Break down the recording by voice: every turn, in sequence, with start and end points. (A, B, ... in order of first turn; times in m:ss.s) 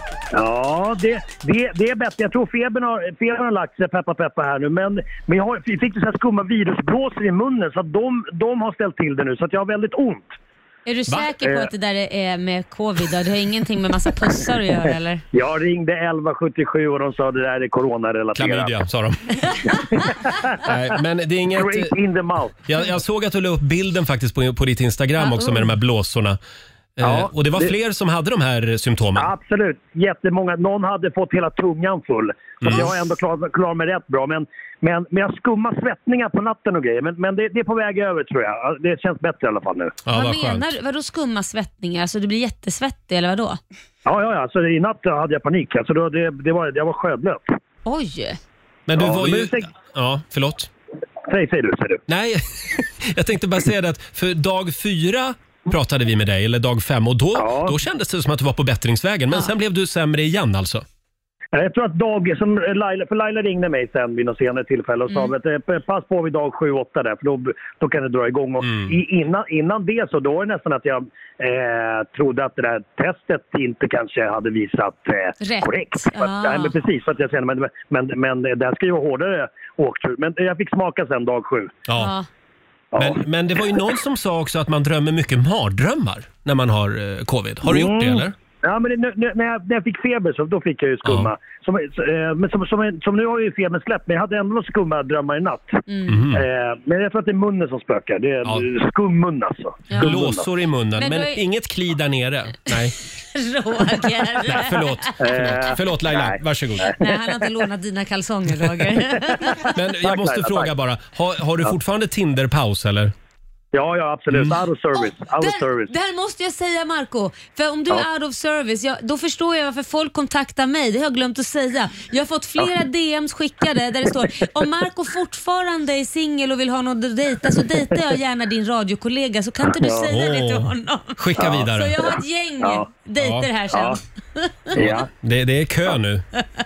0:00.3-0:10.3 A
0:10.9-0:15.2 B
0:11.4-0:11.7 A
0:15.3-0:18.7 A
0:18.4-0:19.4 C
0:19.7-0:20.6 A
0:20.6-0:21.9 C
0:21.6-0:22.6 A
0:22.7-0:26.4 C
0:25.2-0:25.7 B
0:27.0-0:29.3 C
0:27.0-0:27.7 A
0:29.2-0:40.0 A
0:32.6-0:33.0 C
0:40.0-0:40.7 C
0:40.1-0:43.6 B
0:44.0-0:47.6 A
0:47.8-0:48.4 B
0:48.9-0:50.7 C
0:49.0-0:49.6 A
0:51.3-0:52.0 A
0:52.1-1:00.8 C
0:57.4-0:57.7 A
1:01.5-1:21.8 A
1:08.6-1:09.0 C
1:15.4-1:16.7 B
1:21.9-1:22.1 C
1:22.0-1:22.3 B
1:22.9-1:23.2 A
1:23.0-1:28.4 C
1:27.7-1:40.4 A
1:31.0-1:31.3 C
1:35.9-1:36.2 B
1:36.1-1:36.5 C
1:40.0-1:43.0 C
1:41.0-1:41.4 B
1:43.3-1:45.1 B
1:44.4-1:47.0 C
1:45.2-1:46.4 A
1:47.0-1:49.7 B
1:49.7-1:53.1 C
1:50.0-1:50.7 A
1:53.7-1:55.9 A
1:54.3-1:54.6 C
1:55.0-2:14.7 B
2:09.6-2:10.1 A
2:10.1-2:12.0 C
2:12.6-2:12.9 A
2:13.2-2:13.5 C
2:13.7-2:14.0 A
2:14.8-2:15.1 A
2:14.8-2:16.2 C